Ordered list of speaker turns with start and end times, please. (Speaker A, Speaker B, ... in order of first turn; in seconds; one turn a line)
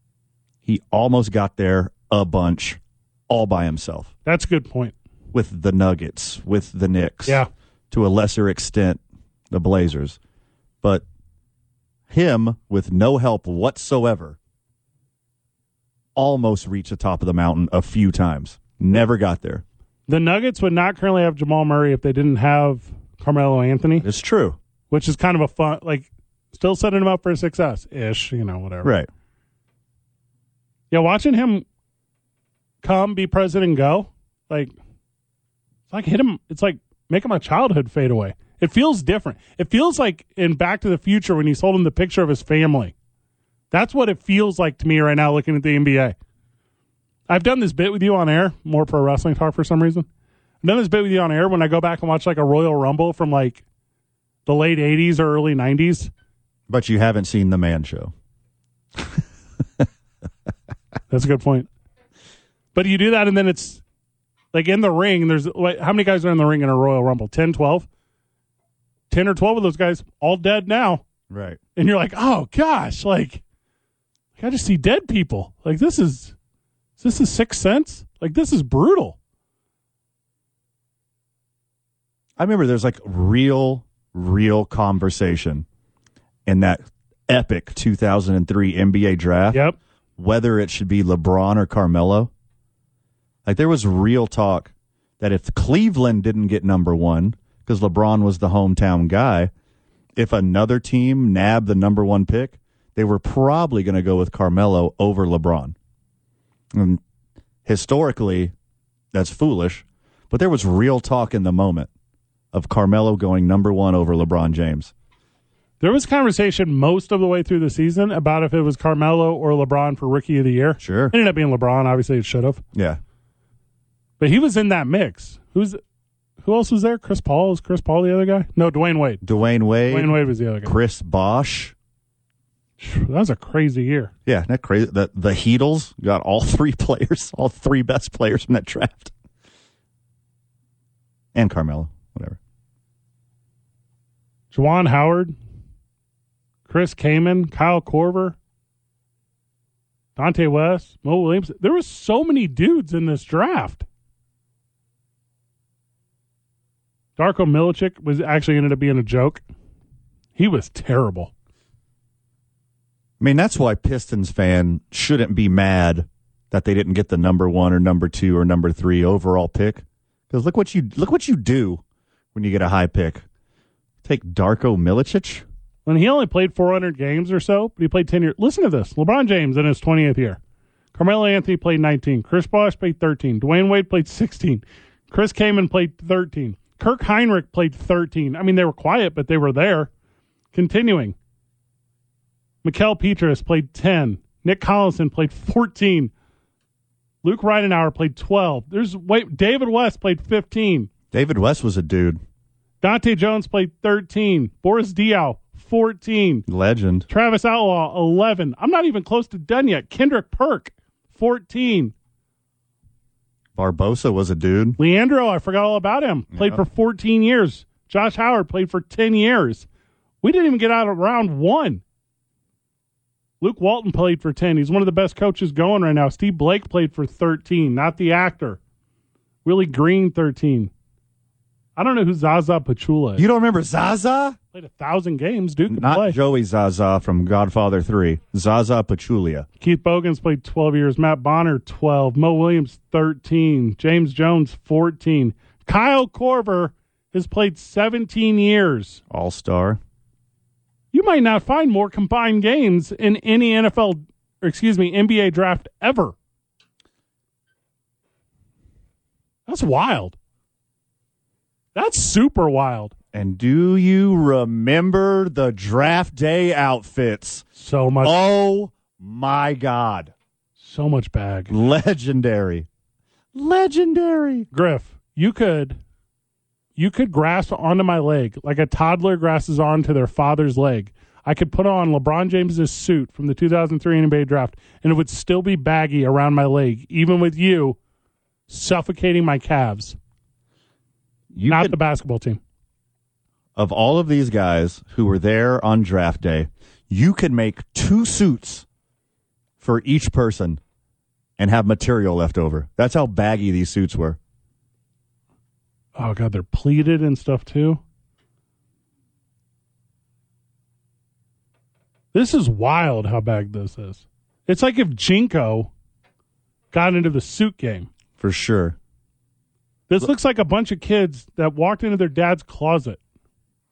Speaker A: 0.7-4.1
Speaker B: 4.2-5.0
Speaker A: 5.3-10.2
Speaker A: 12.1-14.4
Speaker A: 16.2-19.6
Speaker B: 20.1-24.1
Speaker A: 24.0-24.6
Speaker B: 24.9-28.9
Speaker A: 28.8-29.1
Speaker B: 30.9-31.6
Speaker B: 32.8-34.7
Speaker B: 35.9-42.9
Speaker B: 43.7-46.1
Speaker B: 47.3-50.1
Speaker B: 50.6-53.6
Speaker B: 54.5-56.1
Speaker A: 56.7-58.1
Speaker B: 61.1-61.7
Speaker B: 62.7-63.8
Speaker B: 64.5-67.9
Speaker B: 69.1-71.0
Speaker A: 71.3-71.6
Speaker B: 71.8-73.4
Speaker B: 74.4-76.3
Speaker B: 77.0-79.2
Speaker A: 82.4-85.7
Speaker A: 86.5-89.6
Speaker B: 89.5-89.8
Speaker A: 90.2-92.3
Speaker A: 93.5-99.5
Speaker A: 100.2-105.8
Speaker A: 106.7-107.0
Speaker A: 107.7-108.5
Speaker A: 109.1-111.9
Speaker A: 112.5-114.9
Speaker B: 115.8-122.6
Speaker A: 120.8-121.2
Speaker A: 122.7-123.0
Speaker B: 124.2-125.8
Speaker B: 126.4-129.2
Speaker A: 129.2-131.7
Speaker B: 129.9-130.8
Speaker B: 132.8-134.1
Speaker A: 134.3-139.1
Speaker A: 141.3-142.4
Speaker B: 144.5-145.3
Speaker B: 146.7-148.4
Speaker B: 150.2-153.8
Speaker B: 157.2-159.4
Speaker B: 160.4-161.3
Speaker A: 163.2-171.8
Speaker A: 172.3-173.2
Speaker A: 174.0-175.4
Speaker B: 175.9-180.4
Speaker B: 180.9-189.9
Speaker B: 190.5-191.2
Speaker B: 192.6-196.1
Speaker B: 197.2-200.9
Speaker A: 201.1-202.2
Speaker B: 202.8-206.4
Speaker A: 206.5-207.1
Speaker B: 207.1-211.9
Speaker A: 213.6-214.8
Speaker B: 214.8-219.7
Speaker A: 216.3-216.6
Speaker B: 220.2-221.8
Speaker B: 223.4-228.6
Speaker B: 229.4-230.7
Speaker B: 231.8-233.2
Speaker A: 233.2-234.4
Speaker B: 234.5-236.2
Speaker A: 235.7-239.5
Speaker B: 239.6-249.0
Speaker A: 249.1-249.8
Speaker B: 250.9-256.1
Speaker B: 259.5-260.2
Speaker B: 261.8-262.9
Speaker A: 263.1-267.4
Speaker B: 267.6-268.2
Speaker A: 268.0-270.1
Speaker B: 270.6-271.5
Speaker A: 271.5-272.7
Speaker A: 273.3-274.5
Speaker B: 274.5-275.8
Speaker B: 276.8-287.8
Speaker B: 288.5-290.0
Speaker A: 291.3-291.8
Speaker B: 291.5-292.4
Speaker A: 293.6-298.7
Speaker A: 299.6-300.6
Speaker A: 301.4-304.2
Speaker B: 306.0-307.8
Speaker B: 312.1-315.7
Speaker B: 316.7-317.9
Speaker A: 318.2-318.8
Speaker B: 319.9-323.0